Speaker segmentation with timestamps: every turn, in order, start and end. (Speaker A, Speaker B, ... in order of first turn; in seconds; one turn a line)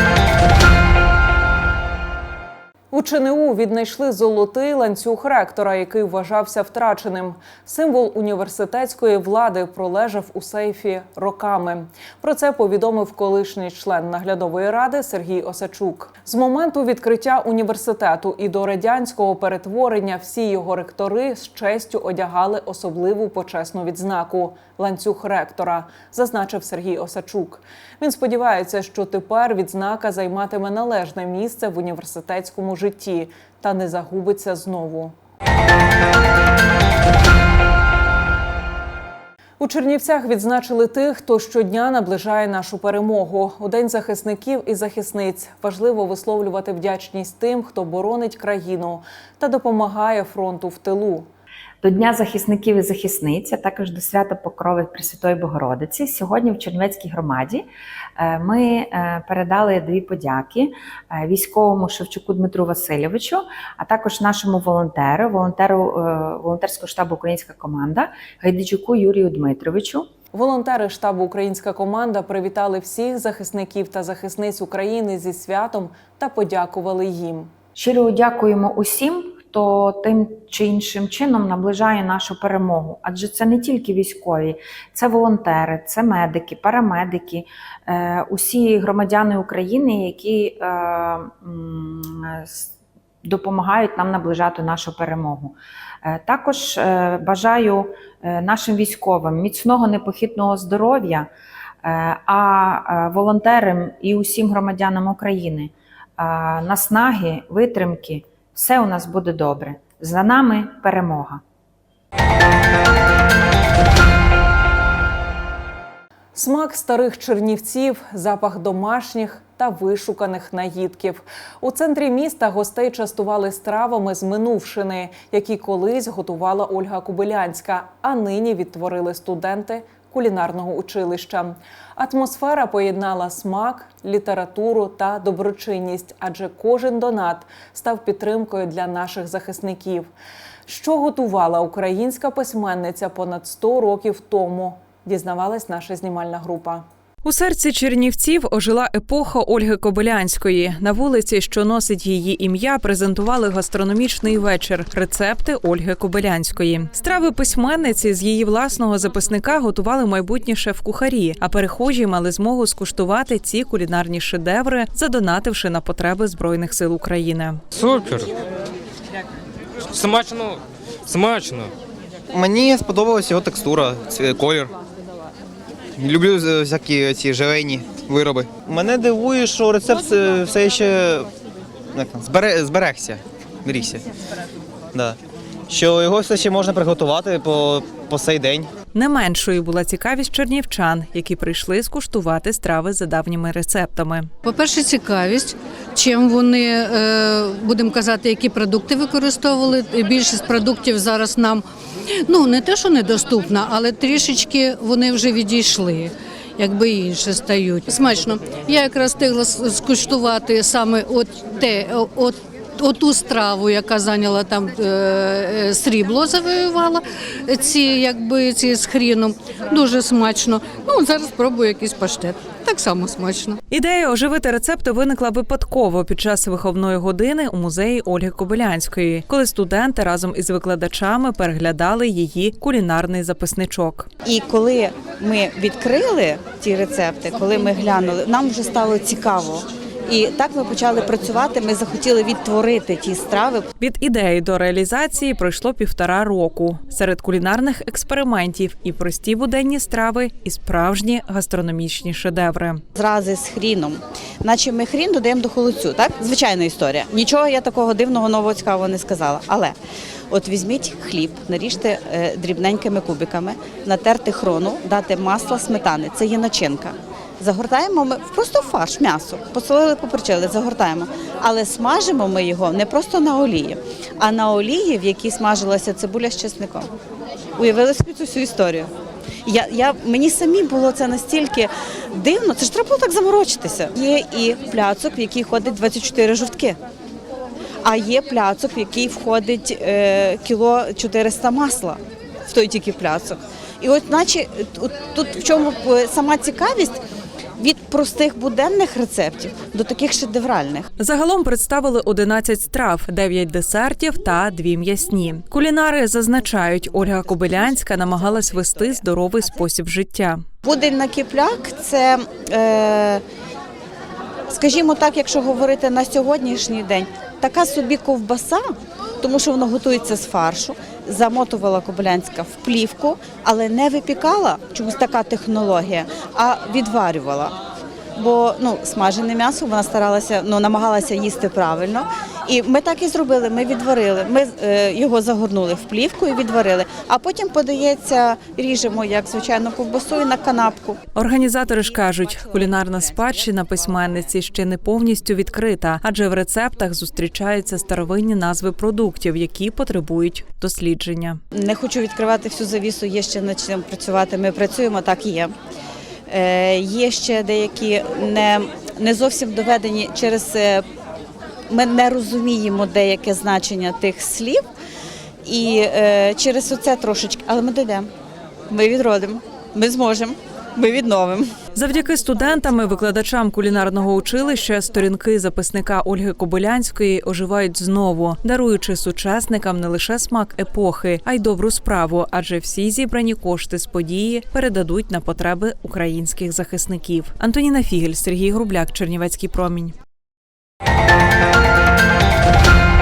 Speaker A: 2.9-35.1
Speaker A: 39.6-51.3
Speaker B: 51.8-57.6
Speaker B: 58.2-70.1
Speaker A: 70.3-77.5
Speaker B: 77.8-92.7
Speaker B: 93.2-101.3
Speaker B: 101.8-111.4
Speaker A: 116.3-140.1
Speaker A: 140.7-146.9
Speaker C: 147.2-167.6
Speaker D: 167.7-168.3
Speaker D: 169.9-171.7
Speaker E: 172.3-174.8
Speaker E: 176.0-181.3
Speaker E: 181.9-184.0
Speaker E: 184.9-185.2
Speaker E: 185.7-188.7
Speaker C: 188.9-194.3
Speaker F: 194.4-201.6
Speaker F: 202.2-223.6
Speaker C: 223.7-234.1
Speaker G: 234.2-243.7
Speaker C: 243.8-252.8
Speaker G: 253.0-259.8
Speaker G: 260.3-276.9
Speaker G: 277.6-278.9
Speaker G: 279.4-286.8
Speaker G: 287.8-297.0
Speaker G: 297.6-300.9
Speaker C: 301.0-310.4
Speaker G: 308.2-309.0
Speaker G: 310.6-313.2
Speaker G: 314.5-327.6
Speaker G: 328.2-341.0
Speaker C: 341.1-351.4
Speaker G: 341.8-343.4
Speaker G: 351.5-355.5
Speaker G: 356.3-360.9
Speaker G: 361.7-364.6
Speaker G: 365.4-368.1
Speaker G: 368.7-371.5
Speaker C: 371.7-390.0